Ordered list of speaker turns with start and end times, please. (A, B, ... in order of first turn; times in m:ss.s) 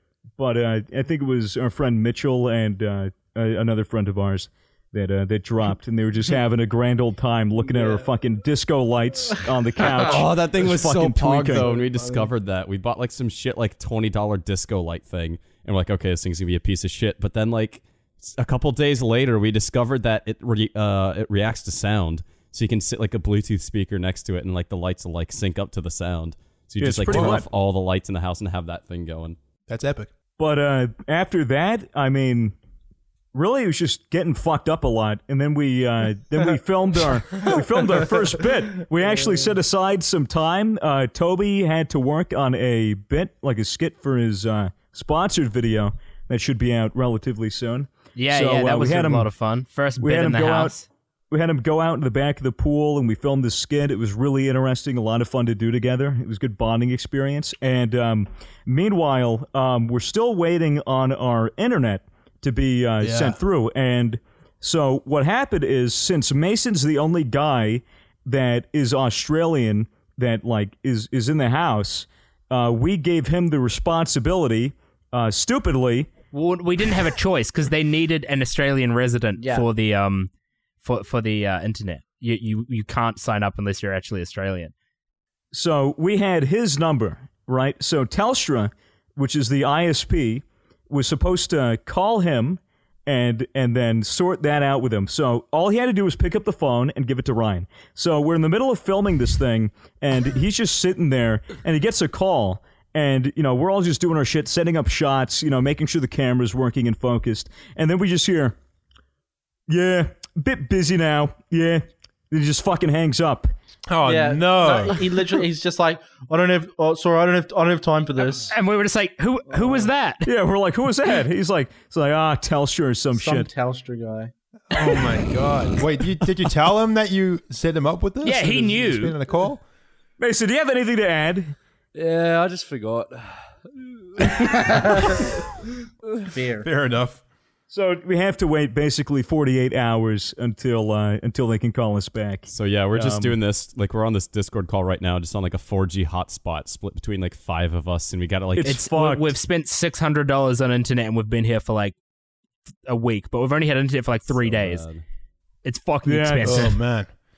0:00.4-0:11.7 A
0:07.6-0:08.1 B
0:09.8-0:29.4 C
0:11.5-0:12.3 B
0:26.8-0:27.5 A
0:27.1-0:27.4 D
0:29.7-0:30.1 D
0:30.4-0:32.6 A
0:33.3-0:49.3 A
0:48.2-0:50.9 E
0:50.0-0:50.8 A
0:51.3-1:16.1 A
1:03.0-1:03.4 D
1:16.3-1:20.3 E
1:19.4-1:19.6 B
1:20.8-1:24.7 E
1:25.5-1:48.6 A
1:49.7-1:53.5 A
1:53.9-1:55.4 D
1:54.0-1:58.5 B
1:58.3-2:00.3 E
1:59.5-1:59.8 B
2:00.3-2:03.5 A
2:03.1-2:04.3 B
2:04.7-2:09.6 D
2:08.2-2:09.2 E
2:10.2-2:11.6 A
2:12.0-2:15.2 F
2:14.5-2:15.2 B
2:16.3-2:16.7 B
2:16.6-2:17.2 D
2:17.7-2:23.4 A
2:22.5-2:28.8 C
2:28.6-2:29.3 A
2:28.6-2:32.0 E
2:32.8-2:34.9 E
2:34.4-2:35.0 C
2:35.6-2:36.8 E
2:36.0-2:36.8 A
2:36.4-2:37.1 D